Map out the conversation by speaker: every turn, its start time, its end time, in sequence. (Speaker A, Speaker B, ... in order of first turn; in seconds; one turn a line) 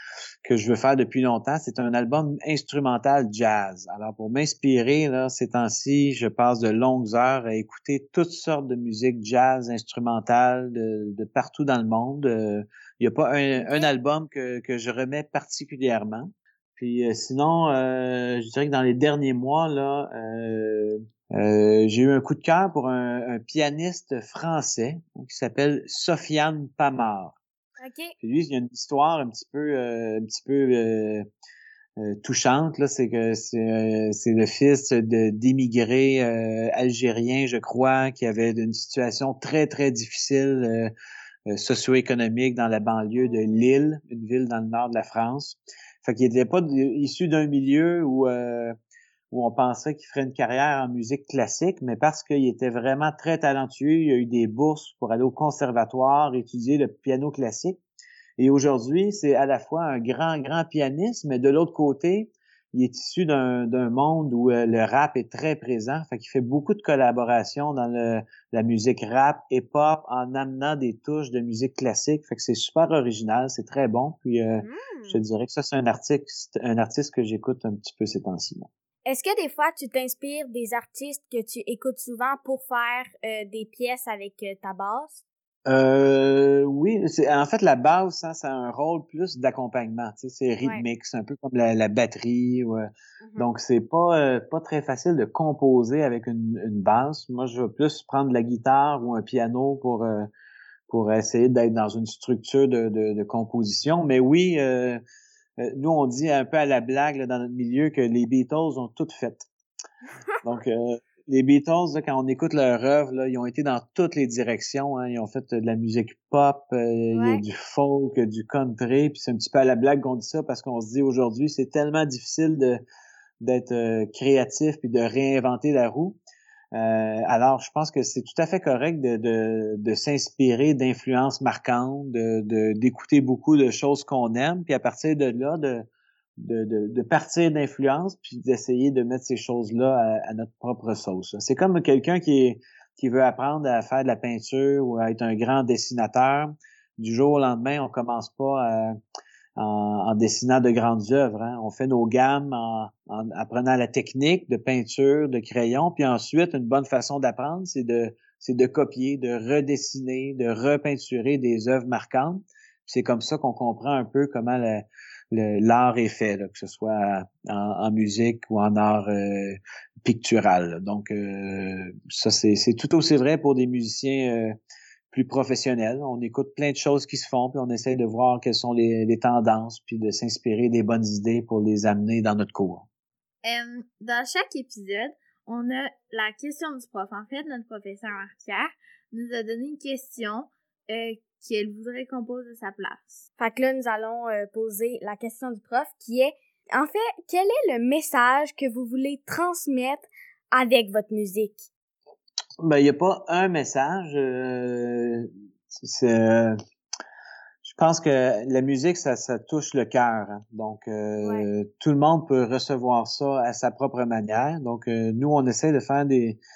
Speaker A: 0.4-27.4
Speaker B: 13.6-13.9
Speaker B: 27.8-28.1
Speaker A: 28.2-31.3
Speaker A: 32.0-40.9
Speaker A: 41.5-48.8
Speaker A: 49.3-57.8
Speaker A: 58.4-78.7
Speaker B: 74.6-75.2
Speaker B: 79.1-85.2
Speaker A: 85.7-100.3
Speaker A: 100.9-105.0
Speaker A: 105.6-109.5
Speaker A: 110.4-122.8
Speaker B: 117.1-117.4
Speaker A: 123.4-126.2
Speaker A: 126.7-135.9
Speaker A: 136.4-148.9
Speaker A: 149.6-174.5
Speaker A: 175.1-182.9
Speaker C: 183.4-193.2
Speaker B: 193.4-201.7
Speaker A: 202.6-206.6
Speaker A: 207.6-216.4